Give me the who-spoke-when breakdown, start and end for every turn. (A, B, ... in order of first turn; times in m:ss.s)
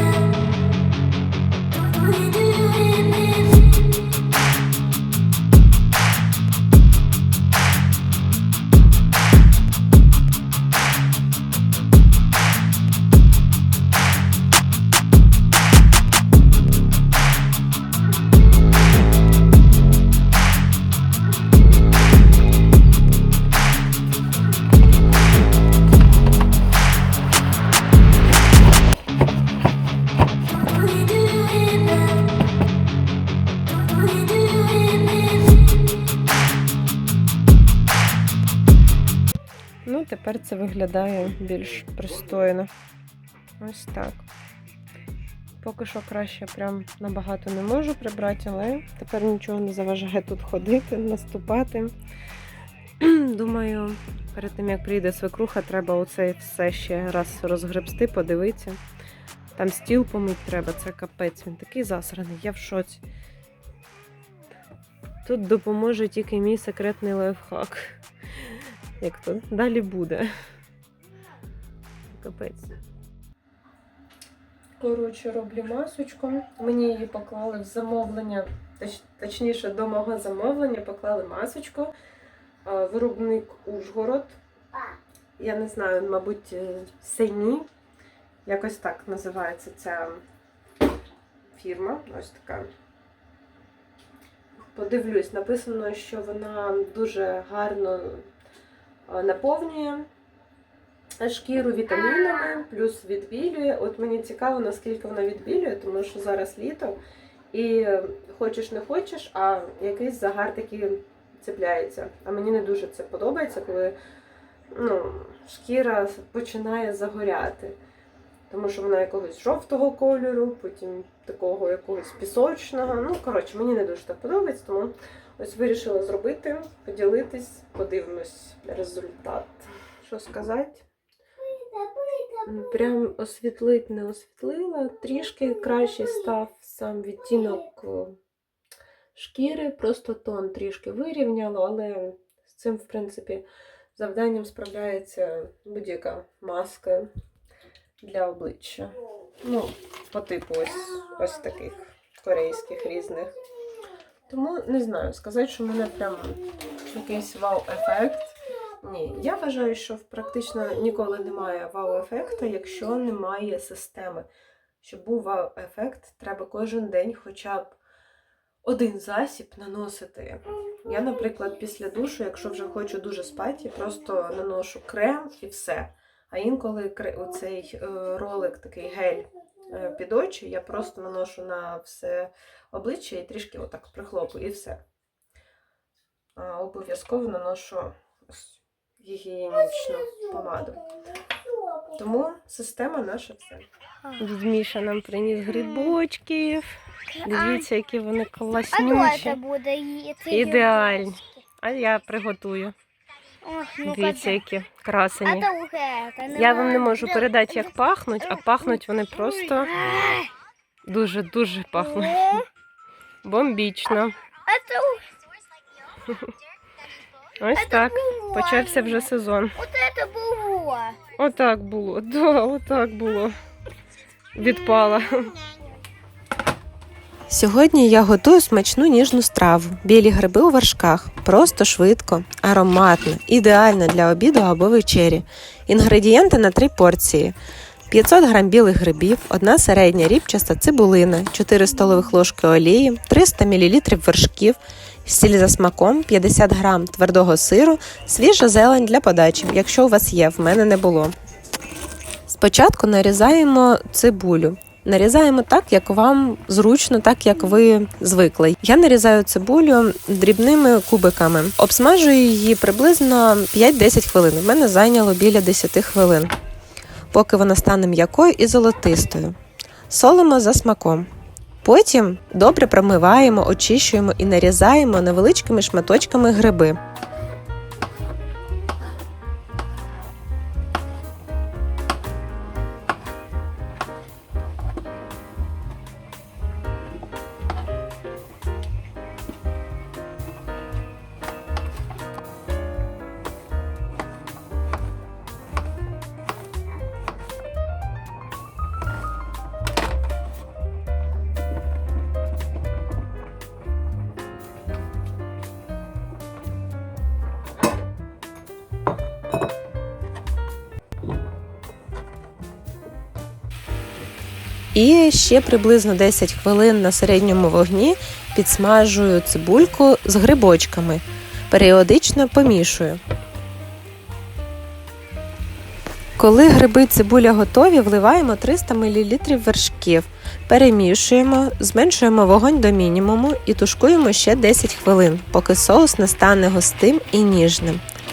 0:39.8-0:42.7 A
0:43.6-0:44.3 A
0:45.6-0:51.9 A
0:53.0-0:58.8 A
0:59.6-1:03.0 A
1:05.2-1:10.3 A
1:12.1-1:12.7 A
1:14.8-1:21.9 A
1:22.6-1:24.4 A
1:25.4-1:27.7 A
1:28.4-1:30.2 A
1:31.5-1:32.7 A
1:34.7-1:38.3 A
1:39.0-1:40.1 A
1:41.2-1:47.0 A
1:47.5-1:54.0 A
1:54.7-1:57.8 A
1:58.5-2:10.8 A
2:11.7-2:12.4 B
2:12.4-2:18.2 A
2:19.1-2:27.1 A
2:28.0-2:33.4 A
2:34.3-2:44.3 A
2:44.8-2:47.8 A
2:48.6-3:04.8 A
3:06.4-3:10.9 A
3:11.9-3:13.6 A
3:14.2-3:16.7 A
3:17.2-3:17.6 B
3:17.2-3:19.4 A
3:18.7-3:21.2 B
3:20.3-3:22.7 A
3:23.4-3:24.4 B
3:23.8-3:25.5 A
3:25.2-3:27.1 B
3:26.3-3:29.9 A
3:29.8-3:30.3 B
3:30.9-3:32.5 A
3:32.0-3:32.4 B
3:33.2-3:34.2 A
3:34.4-3:35.2 B
3:36.0-3:36.3 A
3:37.4-3:39.7 A
3:37.6-3:38.9 B
3:39.6-3:41.0 B
3:41.2-3:43.3 A
3:44.3-3:45.4 A
3:47.3-3:57.4 A
3:57.9-4:11.1 A
4:12.3-4:26.3 A
4:27.1-4:29.4 A
4:29.9-4:31.1 A
4:31.6-4:36.8 A
5:14.7-5:23.0 A
5:26.2-5:37.8 A